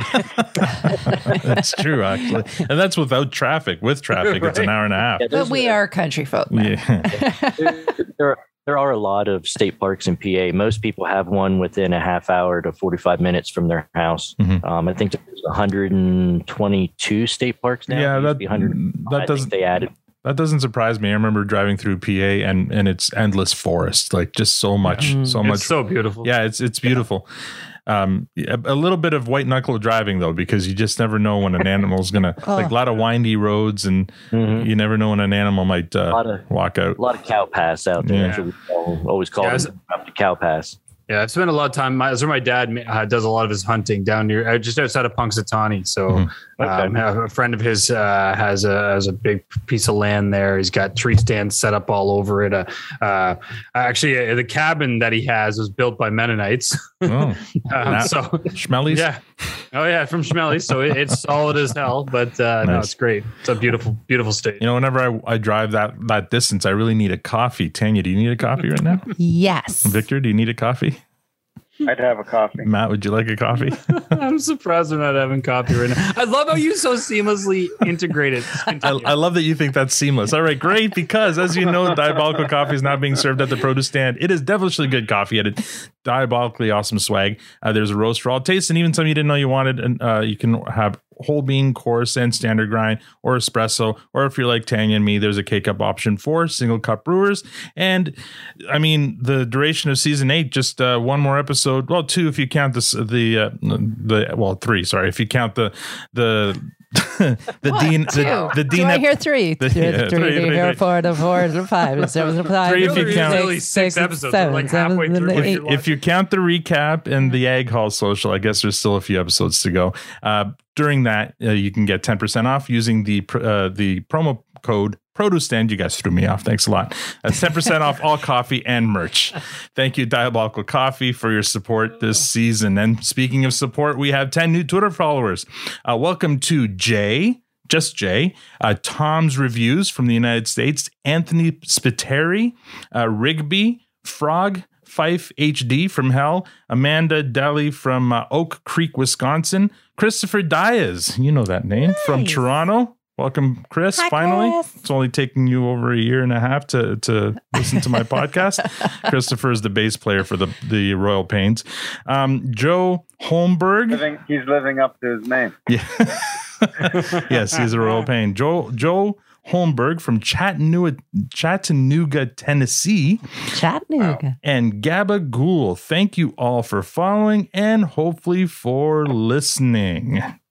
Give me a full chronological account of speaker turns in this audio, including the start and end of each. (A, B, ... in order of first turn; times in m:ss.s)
0:00.2-0:05.3 A
0:04.2-0:04.7 B
0:05.2-0:05.7 C
0:05.3-0:07.9 D
0:06.5-0:07.1 A
0:07.6-0:19.9 C
0:17.9-0:27.3 A
0:24.8-0:26.3 B
0:25.0-0:25.4 D
0:27.9-0:37.0 A
0:32.4-0:32.8 D
0:34.3-0:34.7 C
0:36.1-0:36.4 C
0:37.0-0:40.8 C
0:38.0-0:38.4 A
0:38.2-0:38.4 B
0:39.4-0:39.7 B
0:41.1-0:59.2 B
0:46.6-0:46.9 C
0:57.0-0:59.1 A
0:59.7-1:04.6 B
1:02.6-1:02.9 A
1:04.6-1:09.1 A
1:09.2-1:10.0 D
1:09.8-1:11.0 A
1:11.8-1:12.7 E
1:12.6-1:13.8 A
1:13.9-1:19.1 B
1:18.8-1:50.8 A
1:47.6-1:55.6 D
1:52.6-1:55.9 B
1:52.6-1:53.6 A
1:55.3-2:44.0 A
2:31.8-2:32.4 D
2:34.0-2:34.8 D
2:37.6-2:37.8 D
2:43.9-2:45.6 E
2:45.7-2:53.2 A
2:53.5-2:54.3 D
2:54.4-3:00.3 A